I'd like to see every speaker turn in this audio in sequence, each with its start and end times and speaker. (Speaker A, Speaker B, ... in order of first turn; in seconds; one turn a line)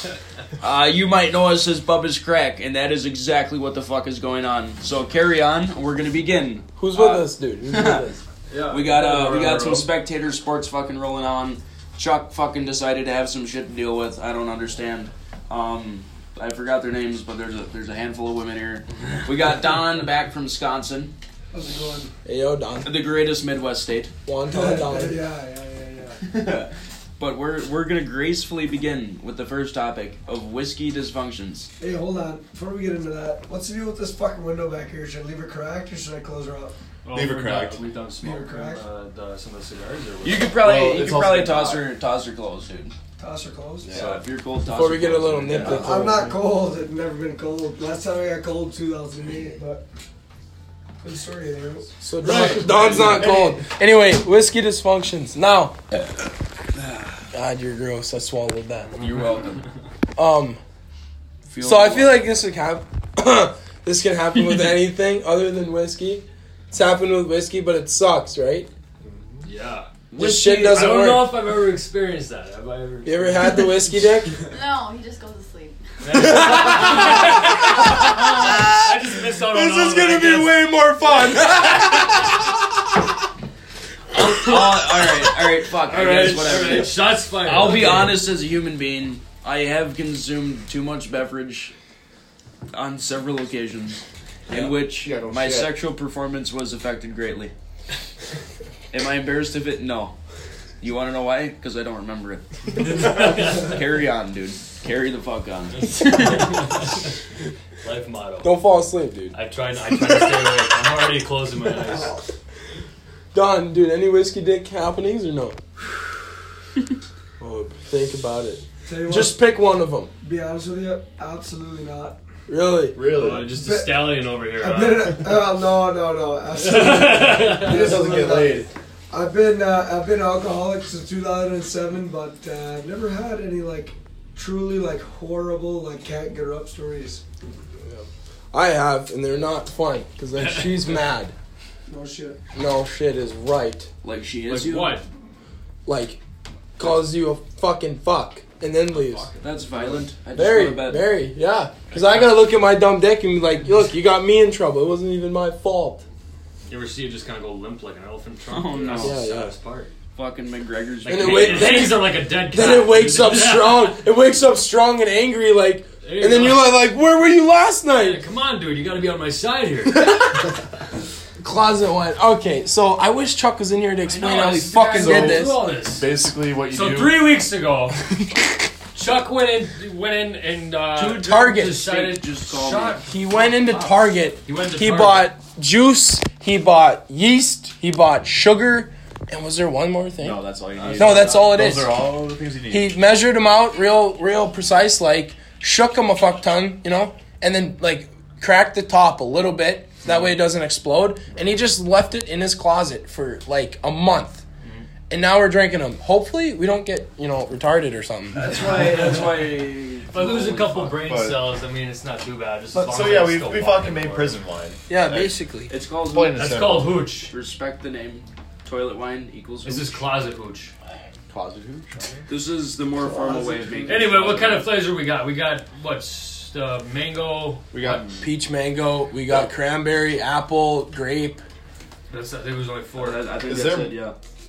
Speaker A: 0.6-8.1
Speaker B: 6.8-8.2
Speaker C: 8.5-9.9
Speaker A: 8.7-21.1
Speaker D: 21.5-22.1
Speaker B: 22.2-22.9
Speaker A: 22.8-24.1
Speaker B: 24.3-25.2
Speaker D: 24.5-26.2
Speaker A: 26.3-31.7
Speaker D: 31.8-36.8
Speaker C: 37.0-40.5
Speaker E: 37.1-37.9
Speaker D: 38.2-38.9
Speaker A: 40.2-42.9
Speaker E: 40.5-41.9
Speaker D: 43.2-44.0
Speaker E: 43.8-44.2
Speaker A: 43.9-45.9
Speaker B: 44.7-46.4
Speaker E: 45.5-45.9
Speaker D: 45.7-49.9
Speaker D: 51.0-51.9
Speaker B: 52.0-55.8
Speaker C: 52.2-53.3
Speaker E: 52.7-53.6
Speaker A: 56.8-57.2
Speaker B: 57.3-58.9
Speaker A: 59.0-59.6
Speaker B: 60.2-60.6
Speaker A: 61.5-62.2
Speaker B: 61.6-68.7
Speaker C: 69.0-69.9
Speaker A: 70.1-70.9
Speaker B: 70.2-71.4
Speaker C: 70.4-73.7
Speaker B: 73.0-74.4
Speaker F: 74.5-77.7
Speaker C: 76.0-82.3
Speaker B: 76.1-82.3
Speaker A: 84.1-91.7
Speaker C: 85.9-88.2
Speaker A: 92.7-94.0
Speaker A: 94.5-97.5
Speaker E: 94.5-95.8
Speaker A: 98.9-100.2
Speaker A: 100.8-106.6
Speaker C: 102.8-103.8
Speaker C: 105.7-107.2
Speaker C: 107.8-108.6
Speaker B: 108.4-109.4
Speaker C: 109.3-112.2
Speaker D: 111.7-112.2
Speaker B: 113.3-115.6
Speaker B: 117.4-120.1
Speaker D: 118.9-119.4
Speaker D: 120.2-122.2
Speaker B: 122.5-123.0
Speaker E: 122.9-123.5
Speaker C: 123.1-125.2
Speaker D: 123.5-137.2
Speaker C: 126.5-128.0
Speaker E: 127.5-128.7
Speaker B: 137.8-141.3
Speaker C: 140.4-140.8
Speaker D: 141.9-142.4
Speaker B: 142.5-143.9
Speaker A: 144.0-145.0
Speaker C: 144.5-145.1
Speaker B: 145.9-146.2
Speaker B: 146.8-149.3
Speaker A: 149.4-151.1
Speaker B: 150.3-156.0
Speaker C: 151.9-152.4
Speaker C: 156.7-159.9
Speaker A: 158.5-159.2
Speaker B: 159.0-159.5
Speaker A: 160.2-161.9
Speaker C: 161.1-164.0
Speaker B: 161.1-168.2
Speaker C: 166.0-166.8
Speaker C: 168.0-170.5
Speaker B: 171.4-175.6
Speaker C: 174.1-176.1
Speaker E: 175.0-177.5
Speaker C: 176.7-178.0
Speaker C: 178.9-185.3
Speaker A: 181.0-183.0
Speaker B: 181.2-181.8
Speaker B: 183.1-190.4
Speaker E: 190.2-193.0
Speaker C: 190.8-191.4
Speaker B: 190.9-192.0
Speaker B: 192.7-204.4
Speaker B: 205.1-208.4
Speaker A: 208.4-211.0
Speaker E: 208.4-209.2
Speaker C: 208.7-209.3
Speaker C: 210.1-214.4
Speaker E: 210.9-211.5
Speaker E: 212.7-215.3
Speaker B: 214.9-215.7
Speaker A: 215.7-216.5
Speaker E: 216.0-217.1
Speaker C: 216.3-217.3
Speaker A: 217.3-220.0
Speaker C: 219.6-220.7
Speaker E: 221.3-222.3
Speaker A: 222.3-224.7
Speaker E: 223.3-223.9
Speaker C: 223.9-228.0
Speaker E: 227.7-228.3
Speaker B: 228.2-231.4
Speaker C: 232.1-233.3
Speaker A: 233.0-234.2
Speaker E: 233.4-234.1